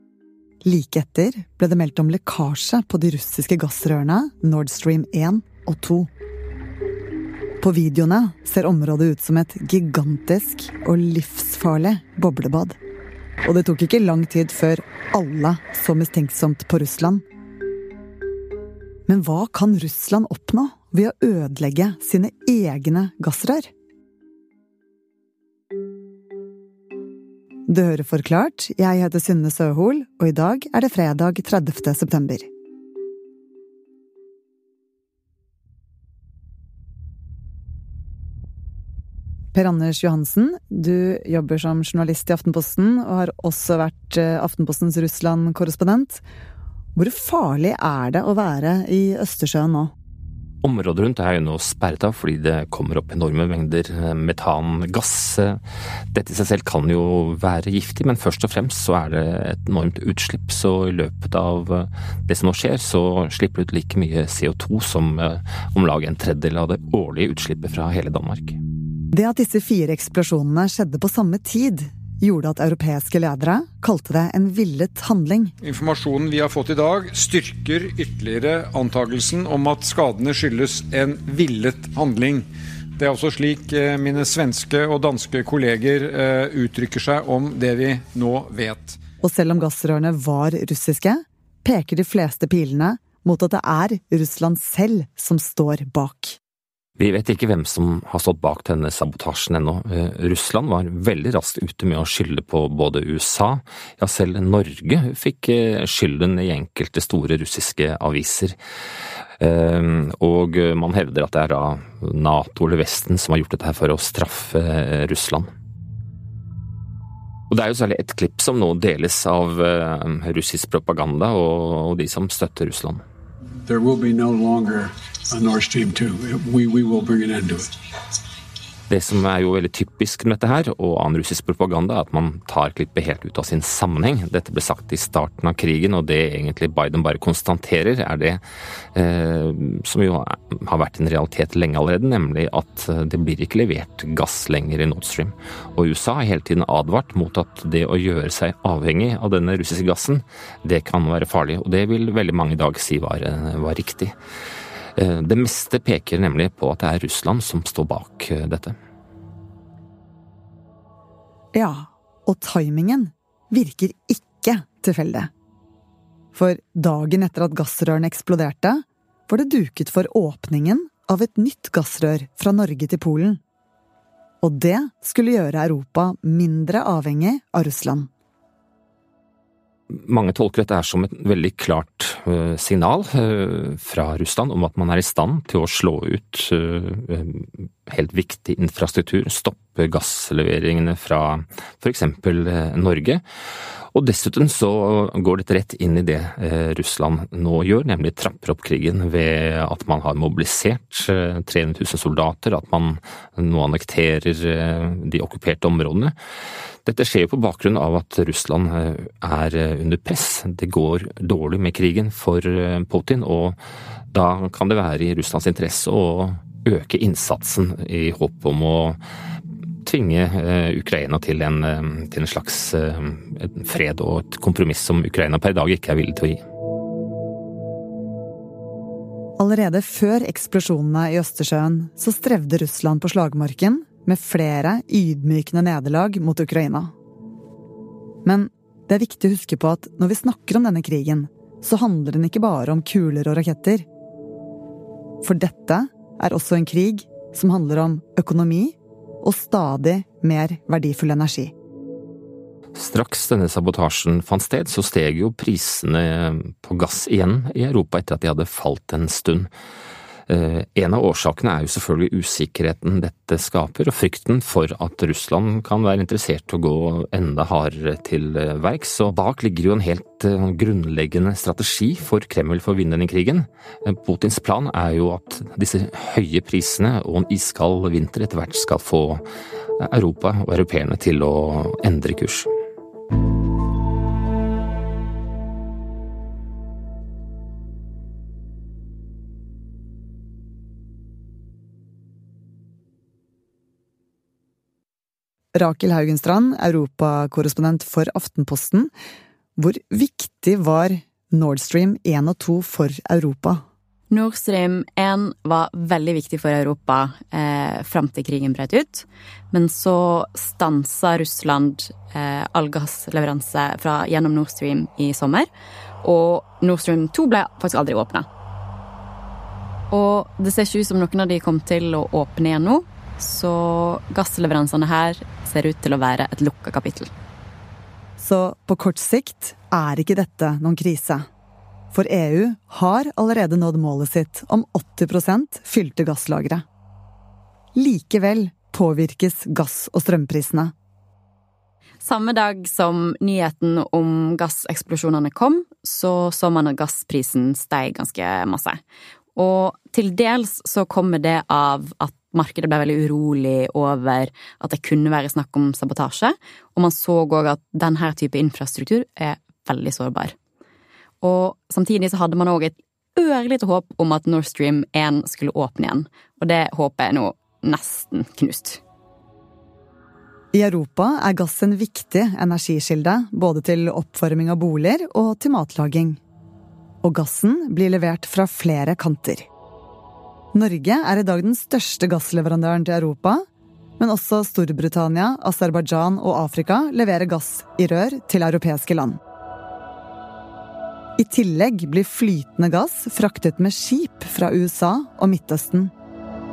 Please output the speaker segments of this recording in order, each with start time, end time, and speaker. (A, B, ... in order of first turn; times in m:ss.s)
0:00.6-0:06.1 A
0:07.6-0:12.8 A
0:13.4-0:17.2 A
0:19.1-0:23.7 A
0:27.7-0:32.5 A
0:39.5-0:46.2 A
0:47.0-0:49.9 A
0:50.6-0:55.6 B
0:56.1-1:08.6 B
1:09.1-1:15.5 A
1:15.7-1:22.4 C
1:23.0-1:29.0 C
1:29.2-1:36.4 A
1:37.0-1:48.6 B
1:49.4-1:55.5 B
1:57.5-2:03.0 B
2:03.6-2:07.7 D
2:08.9-2:18.4 B
2:18.9-2:34.1 B
2:35.0-2:38.7 B
2:41.5-2:45.3 A
2:46.3-2:53.4 A
2:54.4-2:58.1 A
2:59.9-3:13.2 B
3:13.9-3:26.1 B
3:26.8-3:33.6 B
3:34.1-3:39.0 B
3:39.8-3:46.4 B
3:49.4-3:56.9 A
3:58.2-4:03.8 A
4:05.2-4:11.5 A
4:12.7-4:19.5 B
4:20.3-4:39.2 B
4:39.8-4:42.5 B
4:55.5-4:58.9 A
4:59.6-5:03.6 A
5:04.1-5:15.5 E
5:16.0-5:18.2 E
5:19.9-5:27.1 E
5:28.2-5:31.2 A
5:31.9-5:36.6 A
5:37.7-5:40.7 A
5:42.0-5:48.8 E
5:49.4-6:00.3 E
6:01.2-6:08.8 E
6:10.5-6:16.2 A
6:17.0-6:19.5 A
6:20.5-6:23.4 A
6:24.0-6:29.2 A
6:31.2-6:35.9 A